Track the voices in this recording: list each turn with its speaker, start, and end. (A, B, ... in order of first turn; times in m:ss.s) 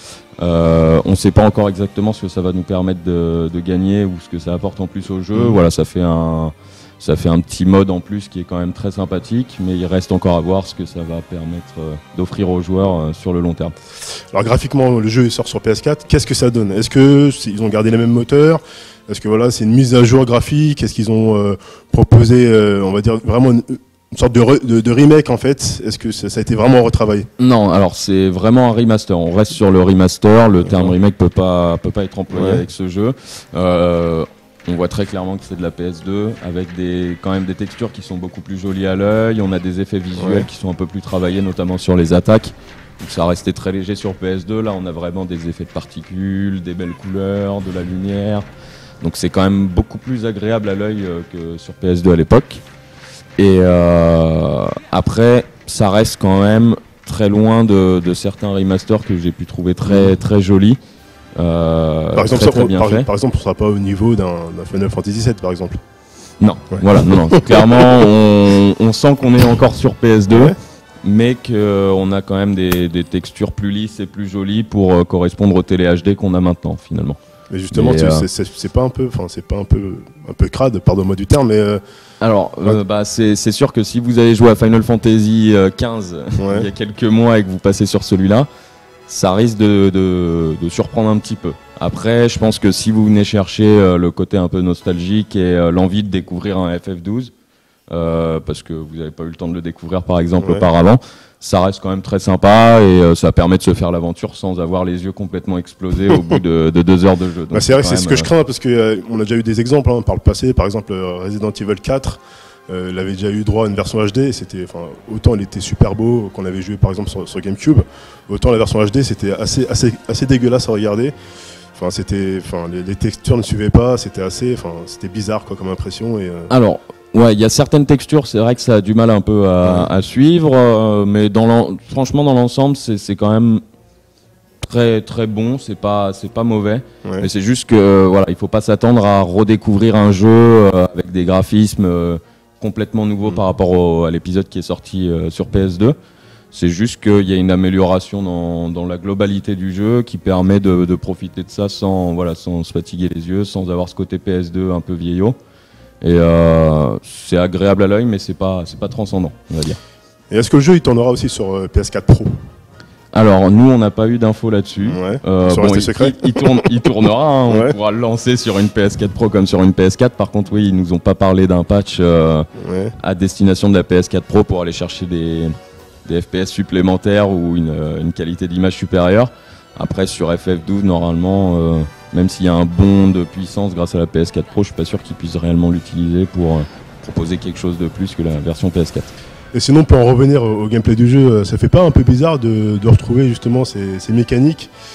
0:00.4-0:13.7 A
0:05.3-0:05.6 B
0:14.3-0:27.3 B
0:27.4-0:48.4 A
0:32.3-0:32.6 B
0:40.2-0:40.5 B
0:49.0-0:52.6 A
0:53.4-1:00.8 A
1:01.4-1:03.1 A
1:02.1-1:05.8 B
1:06.4-1:17.2 A
1:06.7-1:07.9 B
1:10.3-1:10.5 B
1:17.5-1:21.8 B
1:17.7-1:18.2 A
1:22.2-1:28.5 A
1:26.4-1:26.7 B
1:29.1-1:37.3 A
1:37.9-1:48.3 A
1:40.4-1:40.6 B
1:47.5-2:01.1 B
2:01.8-2:06.5 B
2:06.5-2:13.6 A
2:14.6-2:26.0 A
2:26.5-2:35.4 A
2:36.0-2:39.8 A
2:40.3-2:42.3 B
2:43.1-2:52.5 A
2:44.8-2:46.6 B
2:47.5-2:47.8 B
2:52.6-2:52.9 B
2:53.0-2:55.5 A
2:56.0-3:09.1 A
3:09.5-3:14.7 B